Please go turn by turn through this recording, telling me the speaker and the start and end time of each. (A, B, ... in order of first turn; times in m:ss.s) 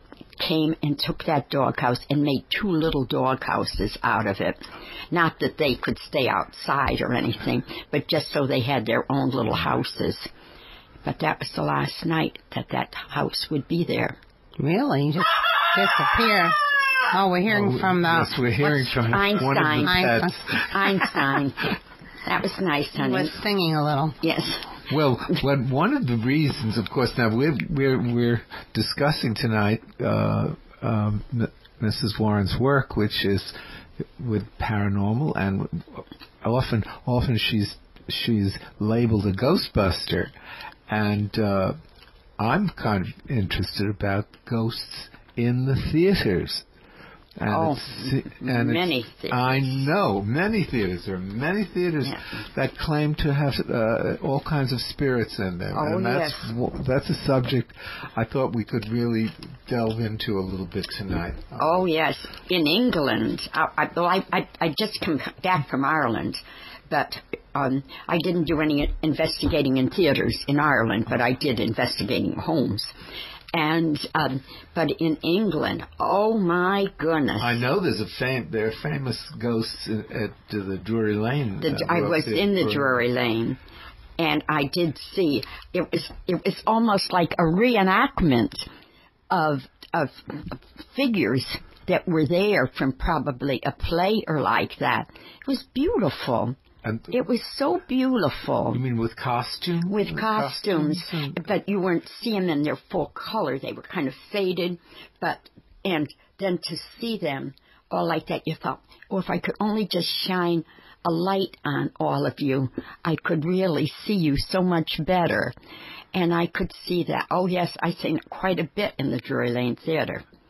0:00.4-0:10.3 A
0:11.0-0:14.2 A
0:14.6-0:18.9 B
0:17.5-0:20.7 C
0:19.0-0:23.4 A
0:19.8-0:20.4 B
0:23.0-0:24.2 B
0:24.2-0:24.8 A
0:24.9-0:40.3 C
0:40.9-0:41.8 C
0:42.4-0:46.6 C
0:47.4-1:01.7 C
0:47.5-0:49.9 A
0:52.0-0:52.3 A
0:55.7-0:56.5 A
1:01.6-1:12.9 A
1:13.5-1:17.6 A
1:17.4-1:23.0 C
1:21.6-1:23.6 A
1:24.2-1:28.7 A
1:29.3-1:36.6 A
1:36.8-1:37.1 C
1:37.1-1:38.8 A
1:38.7-1:41.4 C
1:39.8-1:55.5 A
1:56.1-2:00.2 A